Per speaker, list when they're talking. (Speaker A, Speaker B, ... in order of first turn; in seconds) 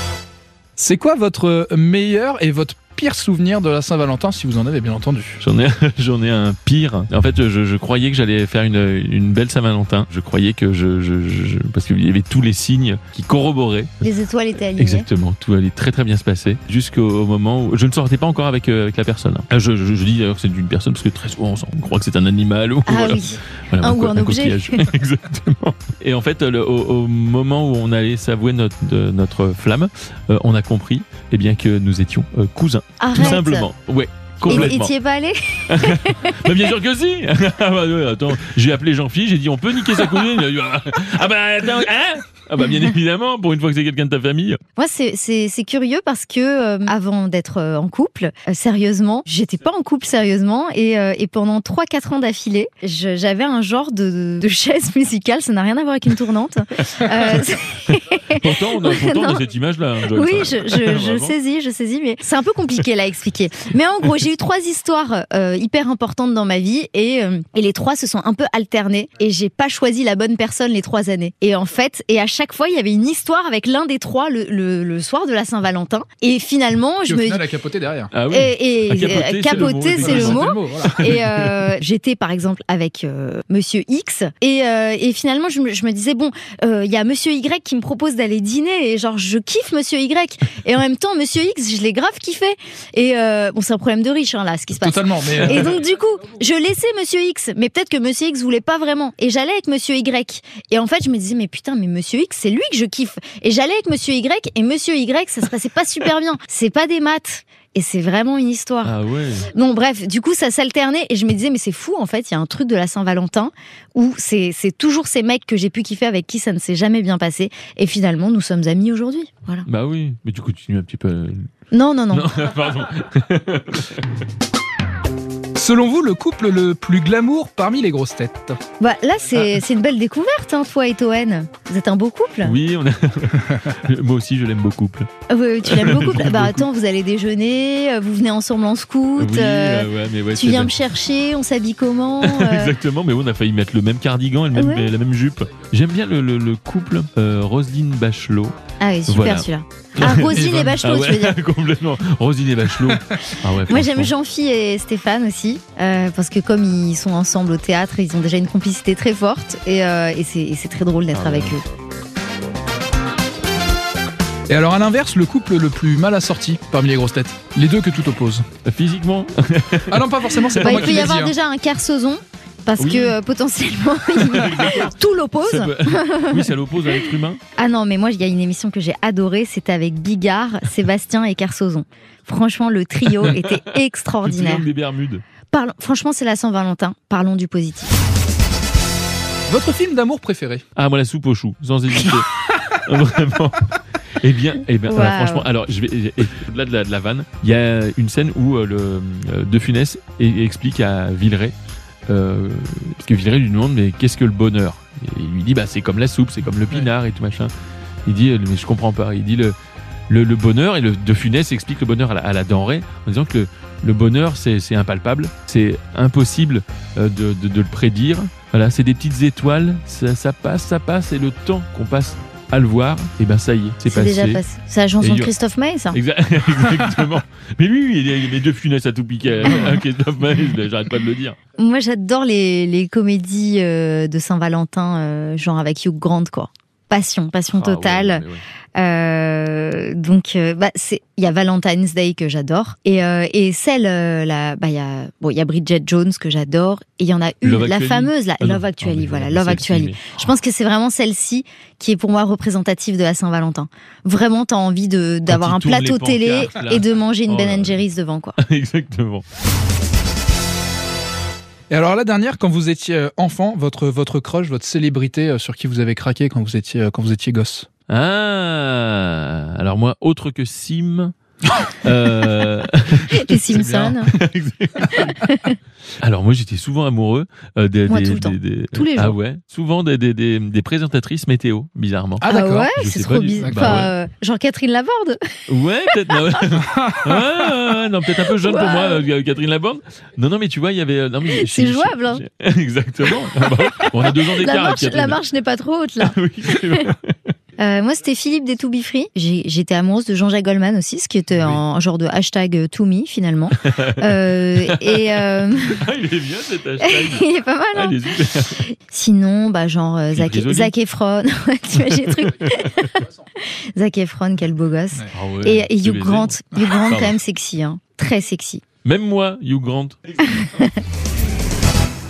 Speaker A: 0.8-5.4, 77.1-78.1, 80.0-81.1, 94.8-95.6, 125.5-128.6, 150.4-150.7, 164.5-168.5, 169.9-171.3, 189.5-190.6, 261.7-267.7, 273.5-274.0, 282.2-282.7, 283.4-283.8, 286.8-287.3
Speaker B: 5.4-14.1, 14.8-34.9, 35.7-44.6, 57.2-61.4, 78.1-81.7, 108.8-109.5, 119.7-121.5, 122.1-124.0, 132.4-135.1, 135.6-136.7, 139.2-140.8, 142.2-148.6, 149.1-154.1, 161.1-161.6, 168.7-171.1, 172.8-173.2, 174.2-177.4, 184.2-185.2, 190.8-201.6, 202.1-207.5, 208.1-209.6, 210.1-224.4, 225.0-225.3, 225.9-231.4, 237.5-238.4, 247.4-250.2, 255.3-257.8, 258.4-259.2, 267.9-271.1, 271.8-275.1, 276.0-282.2, 282.8-283.9, 285.5-295.2, 296.0-297.3, 301.4-301.6, 303.6-308.6, 310.1-310.7, 311.8-312.6, 315.1-317.1, 318.8-320.0
Speaker C: 14.0-15.1, 22.9-24.9, 33.0-33.7, 34.4-36.5, 44.8-59.4, 60.1-77.5, 78.3-109.0, 109.5-119.7, 121.7-122.3, 128.8-132.6, 135.3-142.8, 144.6-144.9, 148.8-151.4, 153.7-161.6, 170.6-177.0, 177.6-184.7, 185.5-187.9, 194.9-195.5, 223.9-226.0, 231.6-258.4, 273.1-274.1, 274.9-275.6, 277.9-279.2, 282.3-285.4, 288.4-289.1, 291.3-292.2, 293.8-296.9, 297.6-305.8, 306.8-308.1, 308.6-318.6, 320.3-320.8